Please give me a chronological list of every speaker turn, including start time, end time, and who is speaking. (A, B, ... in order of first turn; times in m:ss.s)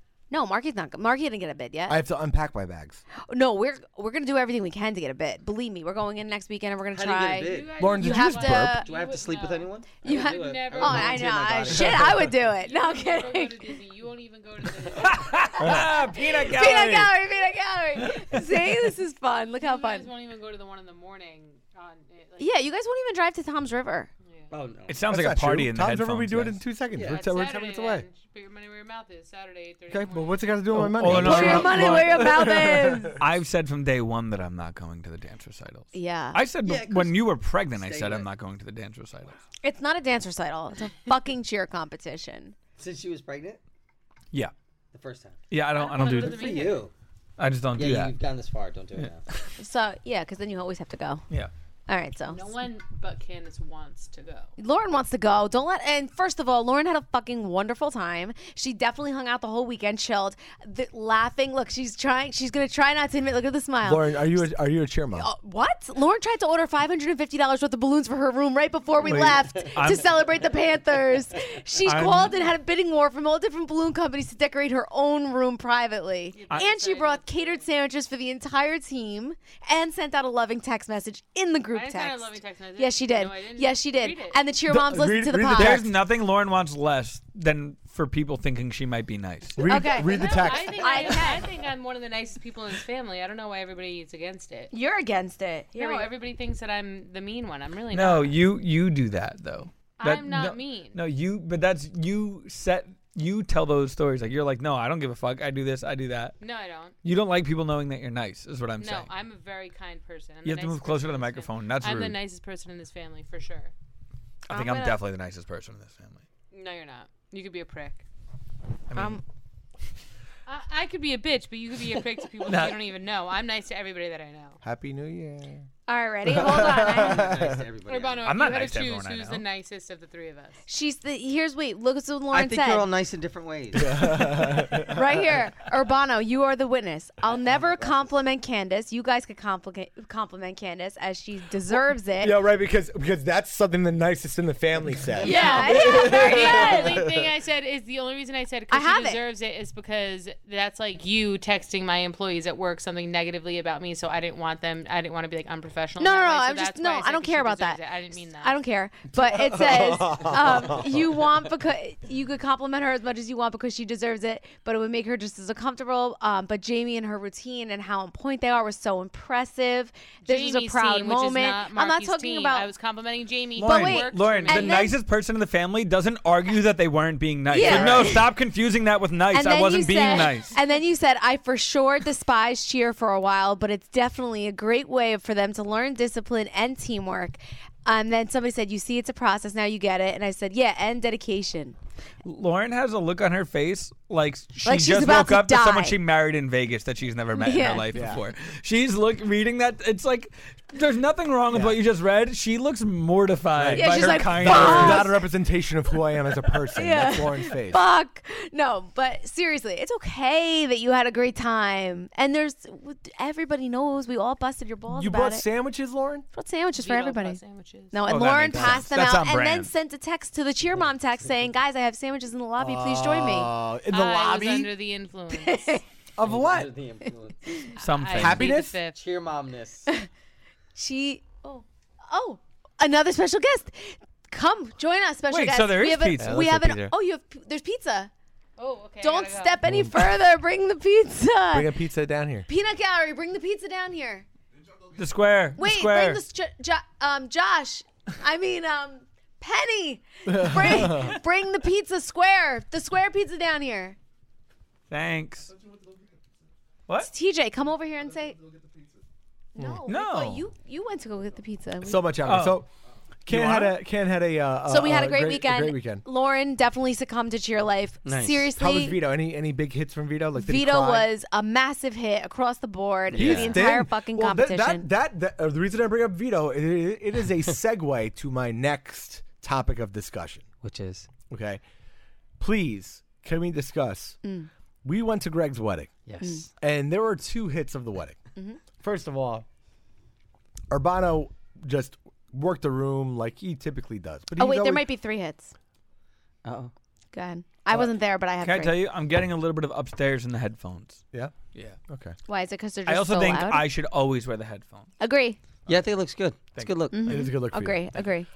0:00.3-0:02.0 A
0:01.9-0:03.0 B
0:03.2-0:08.9 A
0:06.9-0:07.8 C
0:07.4-0:11.6 D
0:07.8-0:08.8 B
0:08.8-0:12.3 C
0:10.0-0:13.8 A
0:11.7-0:12.2 B
0:12.5-0:15.7 D
0:15.0-0:17.2 E
0:15.6-0:15.9 B
0:15.7-0:20.1 A
0:19.6-0:22.5 D
0:22.4-0:24.1 A
0:24.5-0:25.0 C
0:24.9-0:26.6 E
0:25.1-0:28.1 B
0:26.9-0:27.3 C
0:27.1-0:30.6 D
0:29.9-0:33.2 B
0:30.7-0:32.5 E
0:31.1-0:33.2 A
0:33.2-0:39.4 E
0:35.9-0:36.4 A
0:36.6-0:37.2 C
0:37.7-0:38.3 C
0:39.6-0:42.6 A
0:42.8-0:43.6 C
0:44.9-0:45.4 C
0:45.5-0:46.7 E
0:45.7-0:46.9 D
0:46.0-0:46.9 C
0:47.4-0:48.1 E
0:47.8-0:49.2 C
0:49.0-0:49.4 E
0:49.6-0:51.2 A
0:51.9-0:52.5 A
0:52.3-0:54.5 D
0:54.6-1:04.4 A
1:03.8-1:05.3 B
1:05.2-1:25.8 A
1:09.0-1:10.1 E
1:11.8-1:12.5 E
1:16.3-1:17.7 D
1:21.7-1:24.4 D
1:24.7-1:25.9 B
1:25.6-1:29.7 E
1:29.6-1:31.2 B
1:29.7-1:31.5 A
1:29.9-1:34.7 D
1:34.7-1:36.1 A
1:35.8-1:38.4 D
1:37.9-1:46.4 E
1:40.0-1:41.0 D
1:46.4-1:47.0 D
1:47.0-1:49.1 E
1:48.8-1:53.7 D
1:50.4-1:52.2 E
1:54.5-1:56.2 E
1:54.5-1:55.0 A
1:56.5-1:58.0 D
1:58.9-1:59.2 E
1:59.0-1:59.2 A
2:00.5-2:04.6 D
2:02.4-2:02.8 E
2:04.6-2:05.7 B
2:05.9-2:07.3 A
2:06.3-2:07.6 B
2:06.7-2:08.3 C
2:07.8-2:10.6 D
2:08.2-2:09.4 E
2:10.7-2:12.9 A
2:12.3-2:14.6 C
2:13.7-2:15.4 B
2:14.8-2:22.4 A
2:22.2-2:27.3 B
2:25.2-2:38.6 D
2:25.2-2:27.0 A
2:28.7-2:29.2 A
2:36.0-2:52.7 A
2:39.1-2:41.3 B
2:50.2-2:54.8 D
2:53.6-3:00.5 E
2:53.6-2:55.0 A
2:57.5-2:58.3 A
2:57.6-2:58.1 B
2:59.3-3:11.8 A
3:12.2-3:25.1 E
3:14.6-3:16.0 A
3:17.4-3:17.9 A
3:17.9-3:18.2 B
3:21.5-3:21.8 B
3:23.6-3:27.8 B
3:23.7-3:25.2 A
3:26.7-3:35.5 A
3:34.9-3:36.3 B
3:36.3-3:37.4 A
3:36.8-3:38.1 D
3:37.9-3:43.5 A
3:38.1-3:39.7 E
3:38.5-3:38.8 B
3:42.6-3:44.7 B
3:43.9-3:45.8 D
3:45.3-3:45.8 A
3:46.2-3:46.7 B
3:46.2-3:47.7 C
3:47.8-3:49.0 D
3:47.8-3:48.5 E
3:48.2-3:48.8 B
3:48.9-3:49.9 C
3:50.8-3:58.1 A
3:55.3-3:56.4 E
3:56.2-3:56.9 B
3:58.6-3:59.6 D
3:59.0-4:01.7 A
3:59.6-4:00.0 B
4:01.5-4:02.5 B
4:02.5-4:04.3 A
4:05.0-4:06.2 E
4:05.6-4:14.0 A
4:10.3-4:11.2 B
4:14.9-4:15.5 E
4:17.0-4:18.4 A
4:19.6-4:22.1 A
4:19.9-4:20.5 E
4:21.8-4:22.7 B
4:22.2-4:22.6 E
4:23.2-4:26.0 B
4:23.3-4:23.8 E
4:24.7-4:29.0 A
4:28.0-4:28.5 C
4:28.6-4:31.1 B
4:30.4-4:34.9 A
4:33.1-4:33.6 C
4:33.1-4:40.4 B
4:40.6-4:41.1 C
4:41.3-4:41.6 B
4:42.4-4:44.2 B
4:44.2-4:44.5 A
4:44.8-4:45.9 B
4:46.1-4:46.5 C
4:46.6-4:48.2 B
4:48.8-4:49.5 B
4:50.7-4:54.9 B
4:54.4-4:55.5 A
4:56.4-4:56.7 C
4:57.1-4:58.7 A
4:58.4-5:01.0 E
5:01.9-5:02.2 B
5:02.3-5:03.6 A
5:02.9-5:04.9 E
5:05.0-5:05.4 A
5:05.7-5:07.1 C
5:06.9-5:08.3 A
5:07.0-5:07.9 B